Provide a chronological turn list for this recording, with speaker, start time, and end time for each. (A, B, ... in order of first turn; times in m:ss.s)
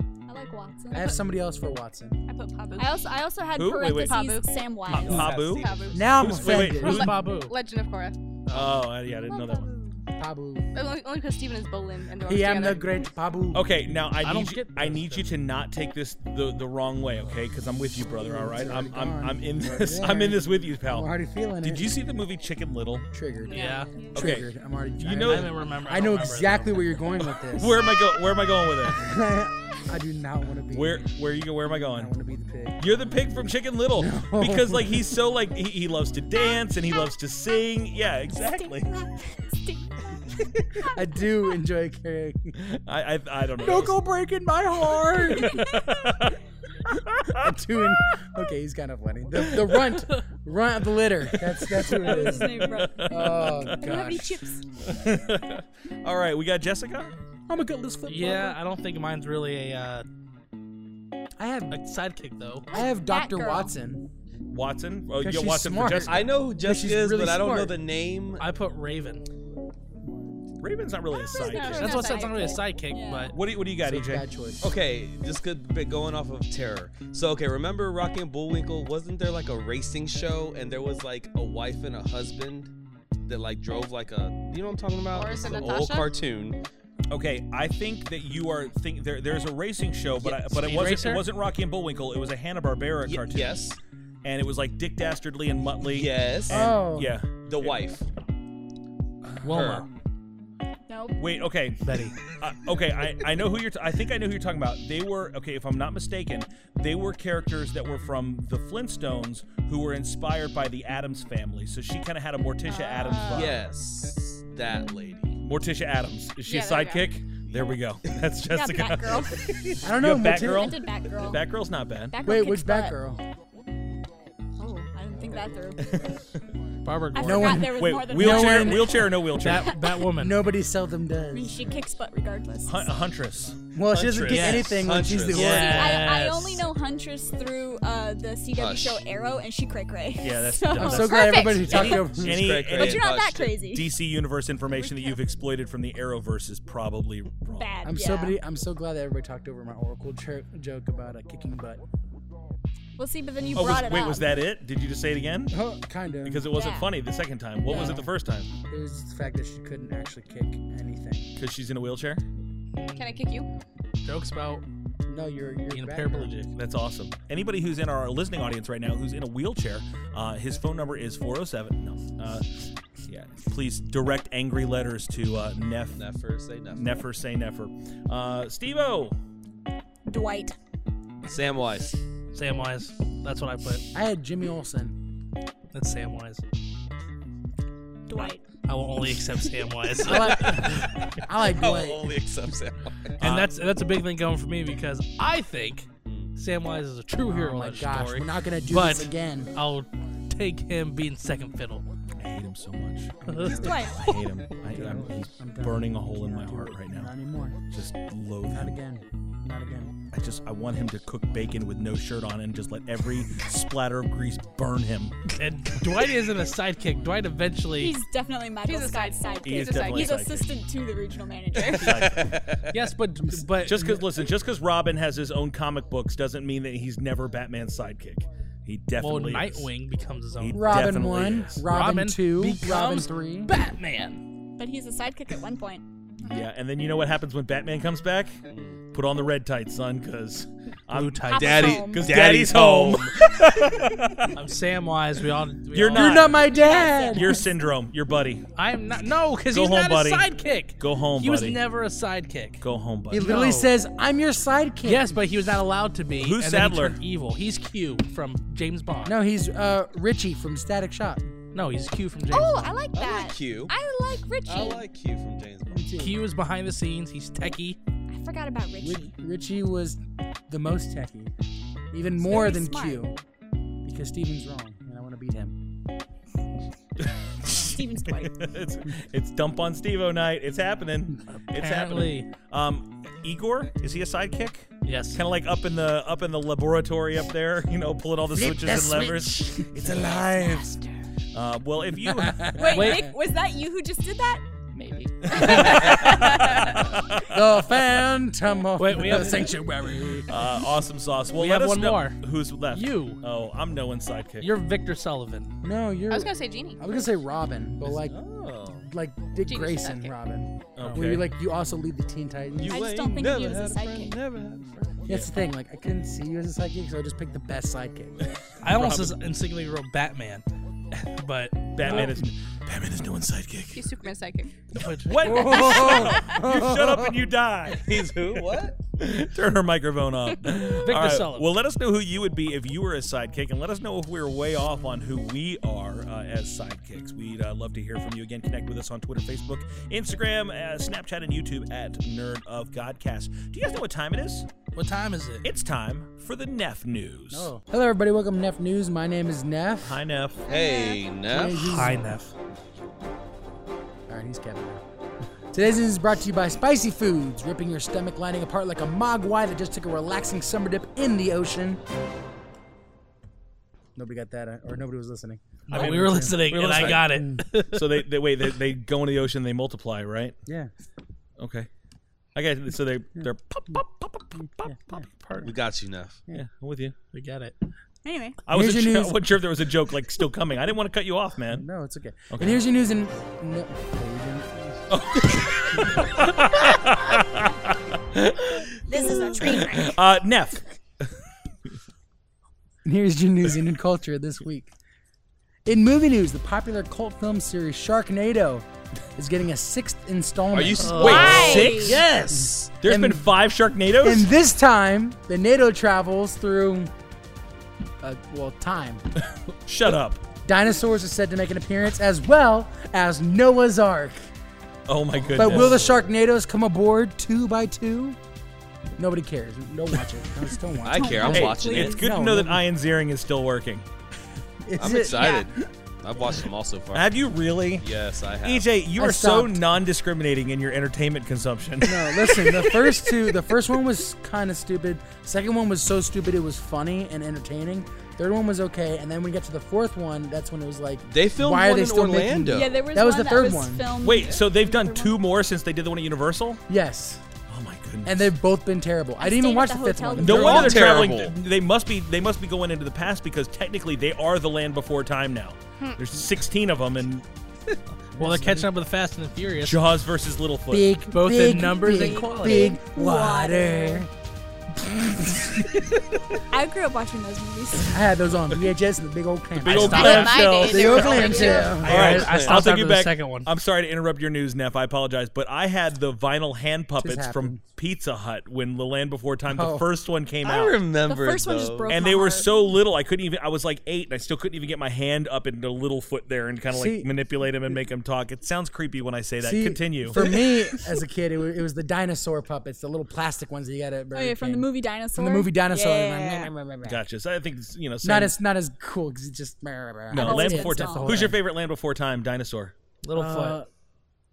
0:00.3-0:01.2 A
0:00.9-0:02.2 B
0:02.3-0:03.0 C
0:02.3-0:05.5 A
0:03.5-0:04.2 D
0:03.8-0:04.6 C
0:04.9-0:06.7 E
0:04.9-0:07.1 D
0:05.5-0:06.0 C
0:05.9-0:07.2 B
0:06.6-0:07.5 F
0:06.7-0:08.2 C
0:08.5-0:08.8 F
0:08.5-0:09.7 D
0:09.3-0:10.0 A
0:10.2-0:10.7 B
0:10.7-0:13.0 C
0:12.2-0:13.8 B
0:13.5-0:23.1 D
0:14.2-0:15.3 F
0:18.2-0:22.0 B
0:23.1-0:23.6 B
0:23.4-0:23.9 C
0:23.5-0:23.9 F
0:24.1-0:27.8 B
0:24.2-0:24.5 D
0:25.0-0:25.5 D
0:25.2-0:26.9 F
0:27.2-0:29.1 D
0:29.0-0:31.0 B
0:30.7-0:32.1 D
0:31.9-0:33.0 B
0:32.8-0:38.9 D
0:34.0-0:35.2 B
0:38.3-0:41.0 A
0:40.9-0:42.6 B
0:42.6-0:44.0 D
0:43.6-0:45.7 B
0:45.3-0:46.4 D
0:46.9-0:47.6 D
0:47.4-0:54.0 B
0:51.7-0:54.2 D
0:51.9-0:53.1 A
0:53.8-0:54.6 A
0:54.8-0:57.1 D
0:57.5-0:58.6 B
0:58.1-1:00.1 F
1:01.4-1:01.8 B
1:01.7-1:02.7 F
1:02.7-1:03.7 A
1:02.7-1:04.0 B
1:04.5-1:06.3 D
1:05.2-1:07.8 B
1:06.0-1:08.4 E
1:08.4-1:09.2 F
1:10.6-1:11.9 D
1:11.2-1:13.4 A
1:11.4-1:12.5 C
1:11.6-1:13.3 F
1:13.3-1:14.2 D
1:13.8-1:14.7 B
1:14.6-1:22.7 E
1:23.2-1:26.6 E
1:25.1-1:26.1 C
1:27.1-1:33.6 D
1:30.2-1:31.2 F
1:33.0-1:33.8 E
1:34.2-1:37.8 D
1:35.8-1:36.7 E
1:36.5-1:37.1 B
1:37.4-1:38.1 E
1:39.4-1:39.9 F
1:39.4-1:39.9 E
1:40.9-1:41.4 A
1:41.2-1:53.6 D
1:41.8-1:42.2 F
1:52.7-1:53.5 C
1:53.3-1:55.4 E
1:55.4-2:02.2 D
1:56.5-1:57.1 C
1:58.5-1:59.5 A
1:59.8-2:00.8 B
2:00.2-2:01.5 A
2:02.1-2:03.0 A
2:02.2-2:03.2 B
2:04.6-2:06.1 A
2:05.8-2:06.1 D
2:06.8-2:07.8 F
2:07.1-2:09.1 A
2:07.2-2:09.0 B
2:07.7-2:09.7 D
2:09.4-2:10.4 F
2:10.2-2:11.6 B
2:11.3-2:12.9 A
2:12.6-2:13.6 D
2:13.7-2:15.9 B
2:13.9-2:16.1 E
2:14.2-2:16.6 F
2:15.5-2:22.1 A
2:18.5-2:19.4 E
2:20.2-2:27.7 D
2:20.8-2:22.5 B
2:21.5-2:23.7 E
2:22.7-2:24.0 A
2:24.7-2:25.2 A
2:27.5-2:28.4 A
2:27.8-2:31.8 B
2:33.0-2:34.4 A
2:33.5-2:35.6 D
2:35.5-2:36.5 B
2:36.2-2:38.5 D
2:36.5-2:37.0 A
2:37.7-2:38.1 B
2:37.7-2:38.0 A
2:38.7-2:41.3 B
2:41.4-2:42.2 D
2:42.7-2:43.2 F
2:43.0-2:43.5 C
2:44.0-2:44.6 F
2:45.1-2:46.3 B
2:45.7-2:46.5 F
2:46.6-2:52.5 D
2:53.1-2:56.0 D
2:56.0-2:57.0 E
2:56.7-2:59.2 D
3:00.1-3:00.6 A
3:01.2-3:02.0 E
3:02.3-3:03.8 F
3:03.9-3:05.0 B
3:05.7-3:06.4 F
3:08.1-3:08.4 A
3:08.6-3:10.8 F
3:10.0-3:12.2 B
3:11.4-3:13.2 E
3:13.2-3:13.6 D
3:13.2-3:21.8 F
3:16.0-3:16.3 E
3:17.3-3:19.5 B
3:22.2-3:27.1 D
3:23.2-3:23.8 B
3:23.3-3:23.8 F
3:23.5-3:24.3 A
3:24.6-3:27.6 B
3:27.7-3:28.8 D
3:28.5-3:30.0 B
3:30.1-3:35.2 D
3:35.4-3:38.0 F
3:37.8-3:42.3 A
3:38.6-3:40.2 C
3:39.4-3:40.5 D
3:41.7-3:42.7 E
3:41.7-3:42.4 D
3:42.7-3:44.0 F
3:43.6-3:49.7 D
3:49.0-3:51.0 F
3:50.4-3:51.6 D
3:50.5-3:53.5 B
3:51.7-3:54.2 F
3:54.6-3:55.8 A
3:56.2-4:04.4 D
3:58.5-3:58.8 E
4:00.9-4:03.1 F
4:01.3-4:02.1 A
4:01.4-4:03.0 E
4:04.3-4:06.5 F
4:05.7-4:06.4 D
4:05.9-4:07.4 B
4:06.5-4:07.4 A
4:07.1-4:08.4 D
4:08.6-4:12.6 F
4:09.5-4:11.6 D
4:12.6-4:13.3 D
4:13.1-4:15.2 B
4:13.2-4:13.7 F
4:14.8-4:19.2 F
4:16.2-4:17.0 D
4:19.0-4:21.3 B
4:21.5-4:22.8 F
4:22.3-4:24.9 A
4:22.9-4:23.7 E
4:24.4-4:26.0 E
4:25.7-4:26.2 B
4:26.0-4:27.8 F
4:28.1-4:29.1 A
4:28.8-4:31.3 B
4:31.9-4:33.2 B
4:32.2-4:33.1 A
4:33.8-4:35.6 B
4:37.0-4:50.7 D
4:37.5-4:38.5 A
4:41.5-4:42.3 F
4:44.8-4:45.2 F
4:48.3-4:49.8 B
4:51.3-4:52.6 D
4:52.2-4:52.6 B
4:52.5-4:54.4 A
4:52.7-4:53.1 F
4:55.3-4:57.4 D
4:55.3-4:56.7 A
4:57.3-5:00.4 B
4:58.8-4:59.6 F
5:00.3-5:04.5 D
5:01.3-5:03.2 F
5:04.4-5:05.5 F
5:05.6-5:08.2 B
5:06.1-5:06.8 C
5:07.8-5:08.9 E
5:08.9-5:12.9 B
5:09.4-5:10.2 C
5:10.8-5:11.3 D
5:12.6-5:15.1 E
5:12.7-5:14.2 A
5:15.1-5:18.2 B
5:18.6-5:19.2 D
5:18.6-5:20.4 F
5:21.1-5:22.2 F
5:21.7-5:23.8 D
5:23.7-5:24.6 C
5:24.7-5:25.8 F
5:25.0-5:28.4 D
5:25.2-5:27.2 B
5:27.8-5:28.8 E
5:29.0-5:44.5 D
5:30.6-5:31.5 F
5:44.7-5:45.5 F
5:45.4-5:47.5 D
5:47.3-5:50.0 B
5:49.8-5:50.4 D
5:50.5-5:51.8 E
5:50.5-5:51.0 A
5:51.3-5:52.1 B
5:51.6-5:52.3 F
5:54.1-5:54.8 B
5:55.5-6:01.8 B
6:04.0-6:07.4 B
6:05.7-6:07.9 F
6:05.7-6:07.1 D
6:07.7-6:10.4 D
6:10.5-6:10.7 B
6:11.4-6:11.7 D
6:12.4-6:15.5 D
6:13.2-6:13.8 B
6:14.6-6:15.5 B
6:15.4-6:16.2 E
6:16.3-6:17.0 D
6:17.1-6:17.6 F
6:18.0-6:18.4 A
6:18.5-6:21.7 D
6:18.5-6:19.2 B
6:21.5-6:24.8 B
6:22.3-6:22.6 D
6:24.9-6:27.8 D
6:28.9-6:30.0 A
6:29.1-6:30.7 D
6:32.8-6:34.7 B
6:35.6-6:41.6 B
6:40.5-6:41.9 E
6:40.8-6:42.6 F
6:41.0-6:42.0 A
6:41.0-6:42.1 D
6:42.3-6:43.3 B
6:42.8-6:44.3 D
6:44.0-6:46.9 B
6:48.0-6:49.0 B
6:49.6-6:50.2 D
6:50.4-6:54.3 B
6:54.9-6:55.8 D
6:55.3-6:55.6 E
6:55.3-6:58.2 B
6:59.0-7:02.6 B
7:00.8-7:02.0 E
7:00.9-7:02.0 A
7:01.2-7:03.9 D
7:04.6-7:05.5 B
7:04.8-7:07.2 E
7:06.9-7:07.9 D
7:07.8-7:08.7 E
7:08.4-7:12.8 D
7:09.0-7:09.7 B
7:11.8-7:23.9 B
7:21.0-7:22.9 E
7:22.5-7:25.2 A
7:24.0-7:26.6 D
7:24.1-7:24.4 E
7:26.7-7:27.2 B
7:27.5-7:28.3 D
7:28.0-7:31.1 B
7:29.2-7:30.9 A
7:30.2-7:37.3 D
7:30.2-7:31.4 E
7:38.2-7:38.7 B
7:38.2-7:39.8 F
7:39.6-7:40.9 D
7:40.7-7:44.1 B
7:41.1-7:42.8 F
7:41.9-7:44.1 A
7:46.5-7:48.0 A
7:47.9-7:52.4 B
7:49.6-7:50.6 F
7:49.6-8:00.8 D
7:50.0-7:51.7 C
7:51.0-7:52.6 E
7:51.8-7:53.5 F
7:57.0-7:57.6 B
7:59.5-7:59.9 B
8:00.4-8:02.0 E
8:01.1-8:02.8 A
8:01.9-8:10.4 D
8:06.7-8:07.1 B
8:09.4-8:17.0 B
8:14.1-8:16.6 A
8:16.8-8:18.4 D
8:18.0-8:21.4 B
8:20.1-8:22.7 D
8:20.2-8:21.3 A
8:23.0-8:23.6 F
8:23.1-8:23.7 B